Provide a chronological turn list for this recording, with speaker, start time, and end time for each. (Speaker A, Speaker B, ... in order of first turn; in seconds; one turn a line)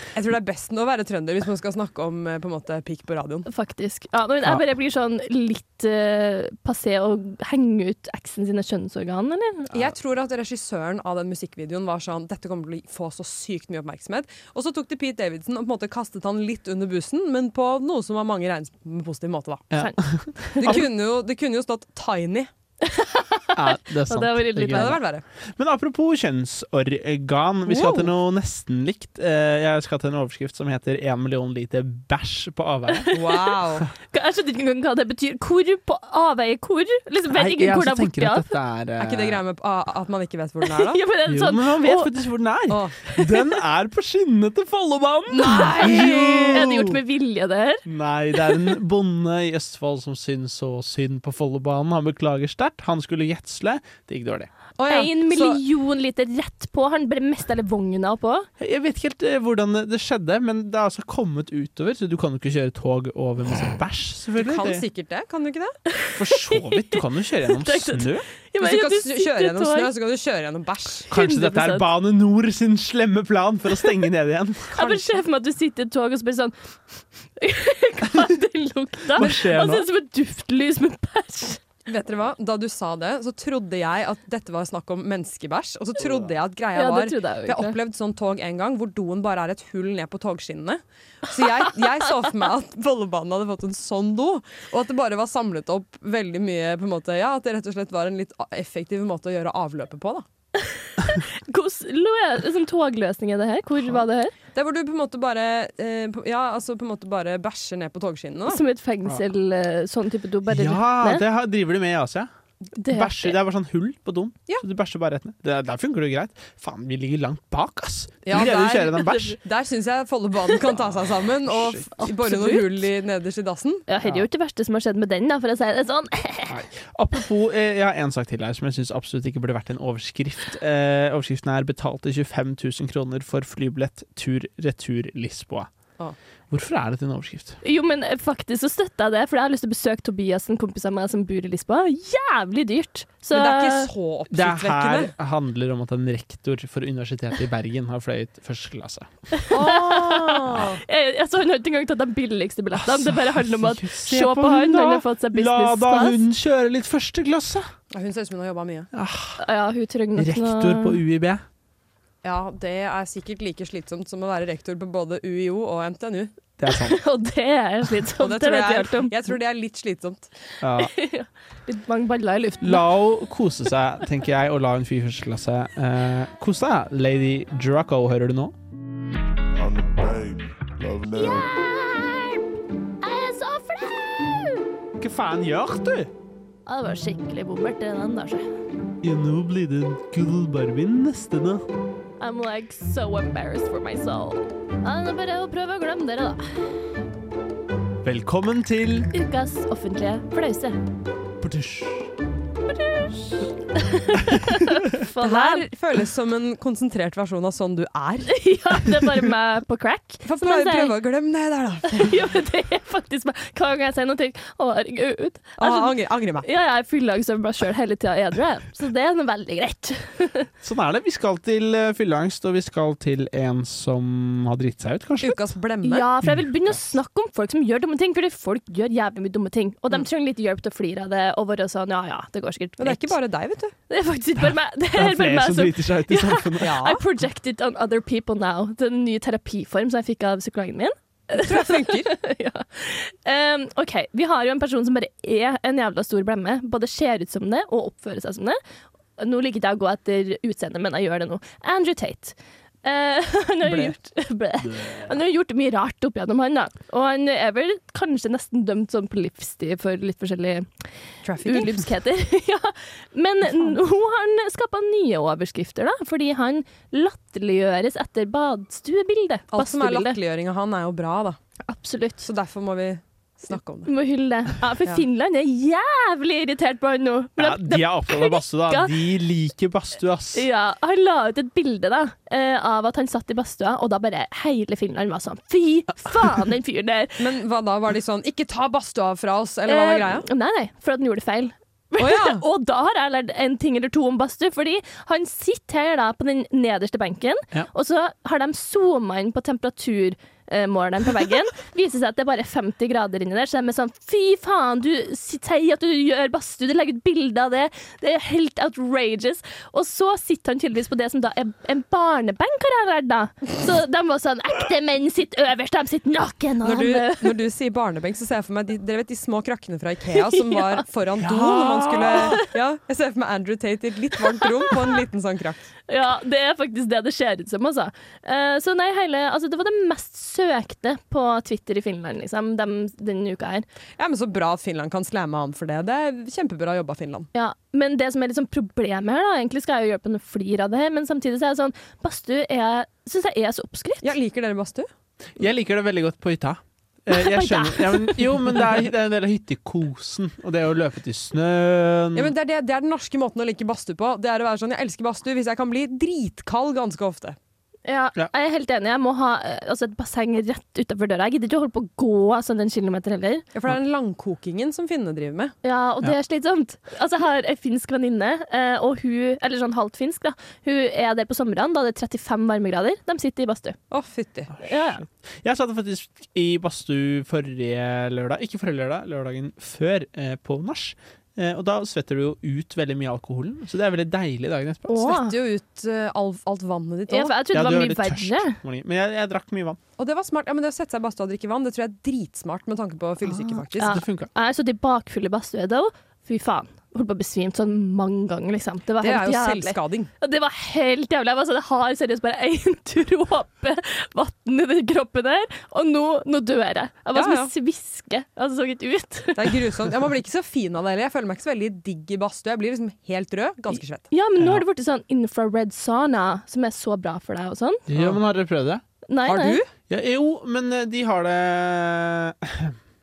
Speaker A: 0.1-3.5
Speaker B: 3.5-9.7
Speaker A: 9.7-19.7
Speaker C: 19.7-20.8
Speaker B: 19.8-20.8
Speaker A: 20.6-22.5
Speaker B: 22.8-25.0
Speaker C: 23.5-33.1
Speaker A: 24.7-25.2
Speaker A: 27.7-28.1
Speaker B: 32.9-33.5
Speaker A: 33.1-33.9
Speaker B: 34.1-38.4
Speaker C: 37.3-39.4
Speaker A: 39.0-41.0
Speaker B: 40.6-42.1
Speaker C: 41.2-47.0
Speaker A: 42.7-43.0
Speaker A: 45.3-46.6
Speaker B: 45.5-47.8
Speaker C: 47.9-54.5
Speaker B: 48.3-48.8
Speaker A: 54.8-55.6
Speaker B: 54.9-58.5
Speaker C: 58.6-64.8
Speaker A: 64.4-65.7
Speaker B: 65.9-69.9
Speaker C: 66.1-68.2
Speaker A: 68.6-71.1
Speaker C: 71.1-74.7
Speaker B: 71.1-71.9
Speaker A: 74.7-75.2
Speaker B: 74.7-76.5
Speaker B: 77.4-81.6
Speaker C: 79.1-79.9
Speaker A: 81.9-100.2
Speaker B: 86.7-87.8
Speaker B: 100.6-104.3
Speaker A: 104.5-108.6
Speaker B: 108.5-111.2
Speaker C: 110.5-112.3
Speaker B: 112.8-113.4
Speaker C: 112.8-119.4
Speaker A: 118.2-123.8
Speaker B: 119.1-119.3
Speaker C: 121.5-121.8
Speaker B: 122.0-122.9
Speaker B: 123.9-126.5
Speaker C: 126.5-135.7
Speaker C: 136.5-137.6
Speaker B: 137.6-143.9
Speaker A: 143.3-145.1
Speaker C: 144.3-149.1
Speaker B: 149.4-156.2
Speaker A: 149.5-150.8
Speaker C: 152.7-157.7
Speaker A: 157.9-158.9
Speaker C: 158.9-159.4
Speaker B: 159.4-161.0
Speaker C: 160.2-161.4
Speaker A: 162.2-166.3
Speaker C: 166.6-167.0
Speaker B: 166.7-169.1
Speaker A: 168.2-170.3
Speaker C: 170.6-170.9
Speaker B: 170.8-172.9
Speaker C: 172.6-178.5
Speaker D: 179.5-181.6
Speaker B: 181.1-182.4
Speaker B: 183.0-184.6
Speaker C: 185.0-186.1
Speaker B: 186.7-188.4
Speaker C: 189.0-191.7
Speaker B: 192.2-196.7
Speaker C: 198.0-199.1
Speaker B: 199.1-200.8
Speaker C: 201.4-202.1
Speaker B: 202.7-205.7
Speaker A: 205.2-208.4
Speaker B: 208.3-210.9
Speaker A: 210.2-212.2
Speaker B: 211.9-215.9
Speaker A: 215.6-216.5
Speaker B: 216.4-220.5
Speaker C: 220.6-225.4
Speaker A: 225.2-226.1
Speaker B: 225.8-233.1
Speaker C: 226.2-226.8
Speaker A: 232.8-233.7
Speaker B: 233.9-248.6
Speaker C: 234.4-236.8
Speaker A: 236.6-237.0
Speaker A: 241.3-242.1
Speaker B: 249.2-260.7
Speaker C: 254.6-255.1
Speaker A: 261.2-261.9
Speaker B: 261.4-270.2
Speaker A: 269.5-271.4
Speaker B: 271.7-272.3
Speaker A: 272.2-273.9
Speaker B: 273.9-278.9
Speaker C: 277.4-280.4
Speaker B: 280.3-287.2
Speaker A: 287.2-290.3
Speaker B: 289.7-317.4
Speaker A: 292.0-292.4
Speaker A: 316.6-325.7
Speaker B: 320.3-320.8
Speaker C: 321.2-322.4
Speaker B: 322.1-322.4
Speaker B: 325.9-333.6
Speaker A: 334.0-337.3
Speaker B: 337.3-344.1
Speaker A: 344.0-344.9
Speaker C: 345.4-352.3
Speaker B: 347.1-348.7
Speaker A: 352.1-357.4
Speaker B: 357.9-363.4
Speaker A: 363.5-365.5
Speaker B: 365.6-373.8
Speaker A: 373.9-374.5
Speaker C: 374.6-385.1
Speaker B: 374.6-375.0
Speaker B: 384.9-385.3
Speaker A: 385.0-387.4
Speaker B: 387.1-388.6
Speaker C: 387.5-389.8
Speaker A: 390.0-394.0
Speaker C: 393.2-394.3
Speaker B: 393.8-409.6
Speaker A: 399.0-400.1
Speaker A: 407.1-407.5
Speaker A: 409.4-414.1
Speaker B: 413.7-417.8
Speaker C: 417.9-418.8
Speaker B: 419.1-419.6
Speaker A: 419.2-419.7
Speaker C: 419.9-422.8